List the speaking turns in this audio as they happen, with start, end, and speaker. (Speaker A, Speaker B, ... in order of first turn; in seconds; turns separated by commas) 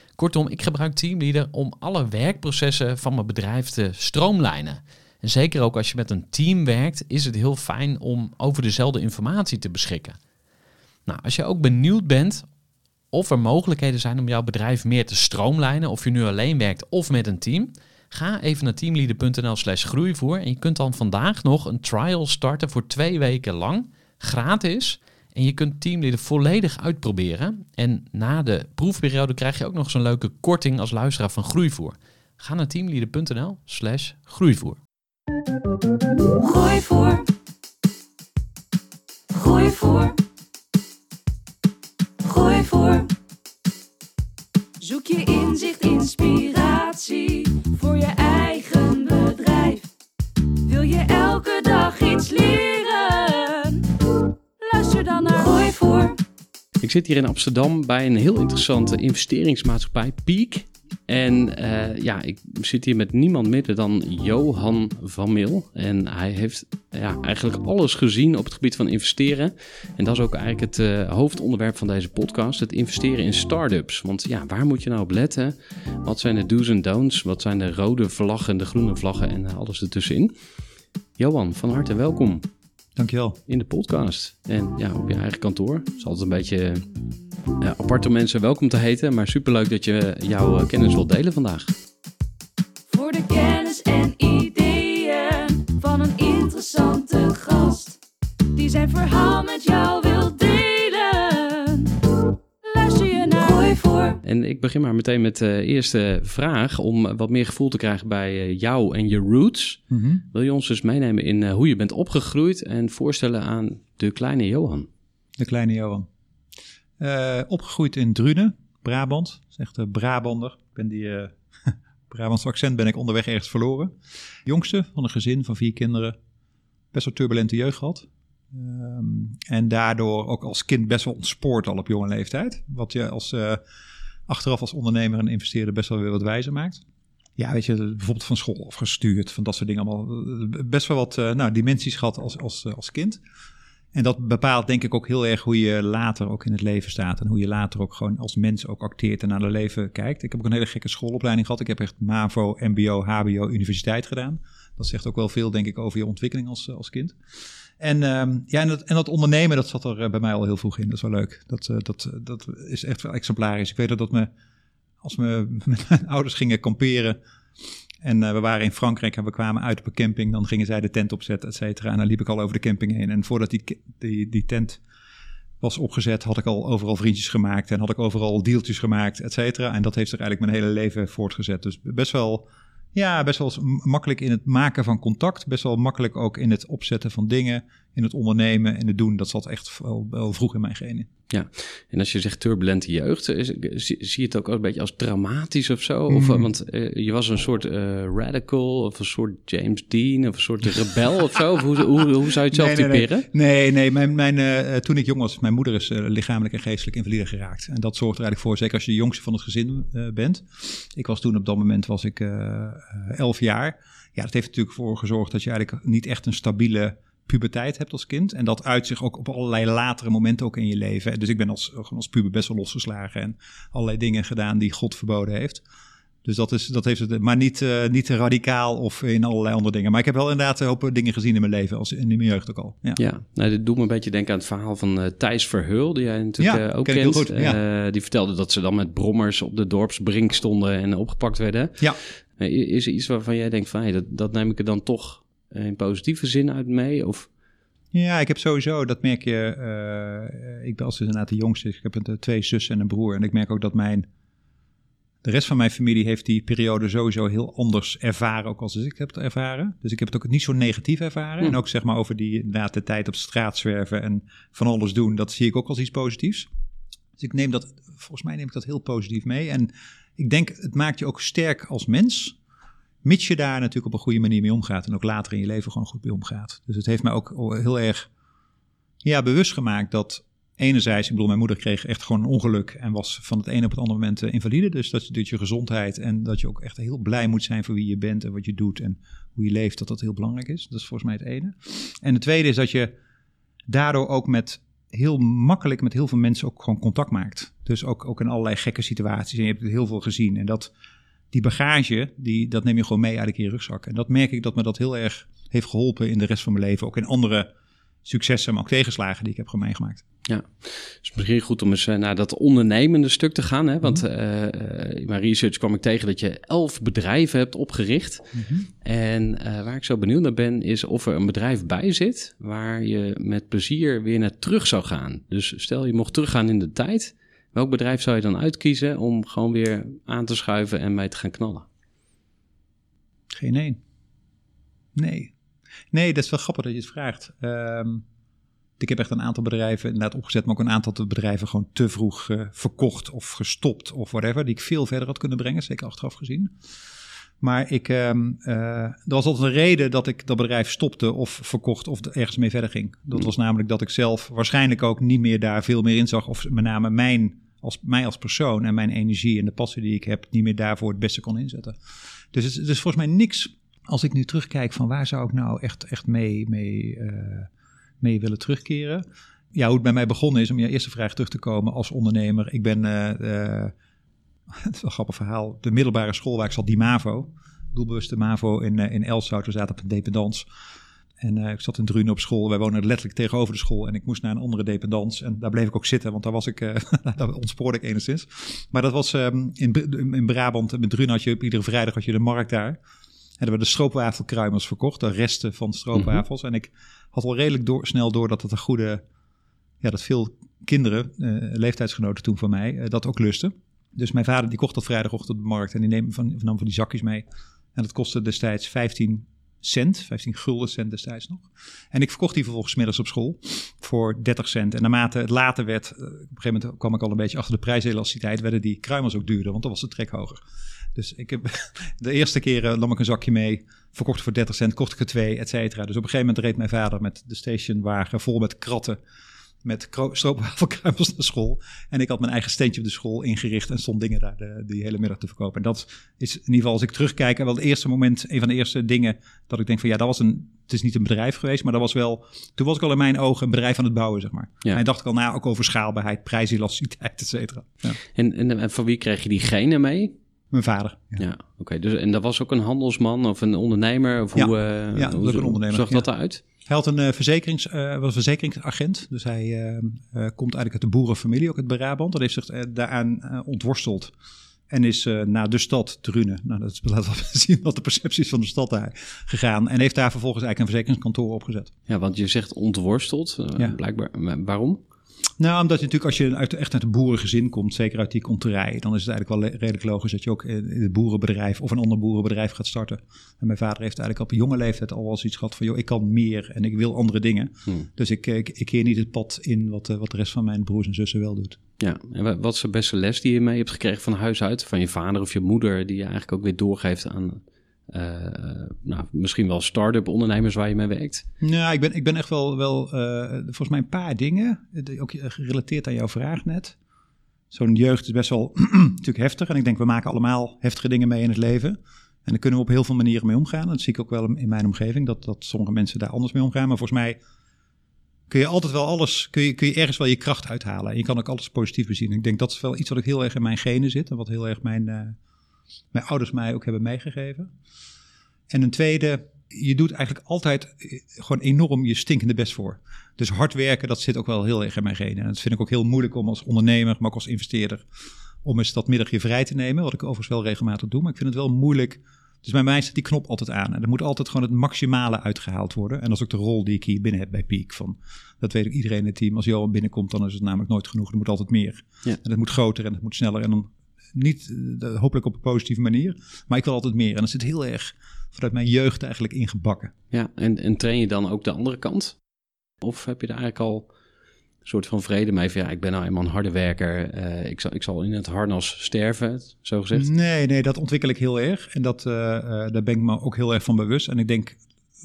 Speaker A: 0.2-10.2, Speaker A: 11.1-12.5, Speaker A: 13.1-34.8, Speaker B: 36.4-37.3, Speaker B: 39.3-40.2, Speaker B: 42.2-43.1, Speaker B: 44.8-49.9, Speaker B: 50.6-56.2, Speaker A: 56.8-80.3, Speaker A: 81.2-82.5, Speaker C: 83.0-83.4, Speaker A: 83.5-86.8, Speaker A: 87.6-91.7, Speaker B: 92.9-98.0, Speaker B: 98.5-104.2, Speaker A: 104.2-114.9, Speaker C: 109.9-110.2, Speaker C: 115.4-116.1, Speaker C: 117.0-123.9, Speaker C: 124.4-126.1, Speaker C: 126.9-133.6, Speaker C: 134.3-136.8, Speaker C: 137.4-143.2, Speaker C: 143.9-157.2, Speaker C: 157.8-164.3, Speaker C: 165.0-167.2, Speaker C: 168.0-174.8, Speaker C: 175.6-191.1, Speaker A: 191.3-203.3, Speaker C: 196.1-196.5, Speaker C: 202.5-225.6, Speaker C: 226.2-233.0, Speaker A: 233.0-241.8, Speaker C: 236.4-237.6, Speaker A: 242.3-247.3, Speaker C: 247.9-254.1, Speaker C: 255.2-266.5, Speaker C: 267.2-272.4, Speaker C: 273.0-278.1, Speaker C: 279.0-292.9, Speaker C: 293.7-300.7, Speaker C: 301.3-307.5, Speaker C: 308.0-310.0, Speaker A: 310.3-318.3, Speaker C: 318.3-318.6, Speaker A: 318.8-331.7, Speaker C: 333.3-333.8, Speaker C: 334.9-335.3, Speaker C: 335.9-338.0, Speaker C: 338.8-346.5, Speaker C: 347.4-361.8, Speaker C: 362.3-367.5, Speaker C: 368.0-369.0, Speaker C: 369.5-373.7, Speaker C: 374.5-380.5, Speaker C: 381.2-392.8, Speaker C: 393.4-399.0, Speaker A: 395.9-396.2, Speaker C: 399.8-420.4, Speaker C: 420.9-429.0, Speaker C: 429.6-448.0, Speaker A: 448.1-450.1, Speaker C: 450.5-451.2, Speaker A: 451.2-456.4, Speaker C: 454.3-456.1, Speaker C: 456.6-464.1, Speaker C: 464.7-471.7, Speaker A: 471.9-474.8, Speaker C: 475.4-491.6, Speaker A: 491.8-501.2, Speaker C: 501.4-506.8, Speaker C: 507.5-517.2, Speaker C: 518.3-525.1, Speaker C: 525.9-527.5, Speaker C: 528.5-537.8, Speaker C: 538.4-559.9, Speaker A: 560.1-562.2, Speaker A: 562.8-563.9, Speaker A: 564.6-570.1, Speaker C: 569.9-574.6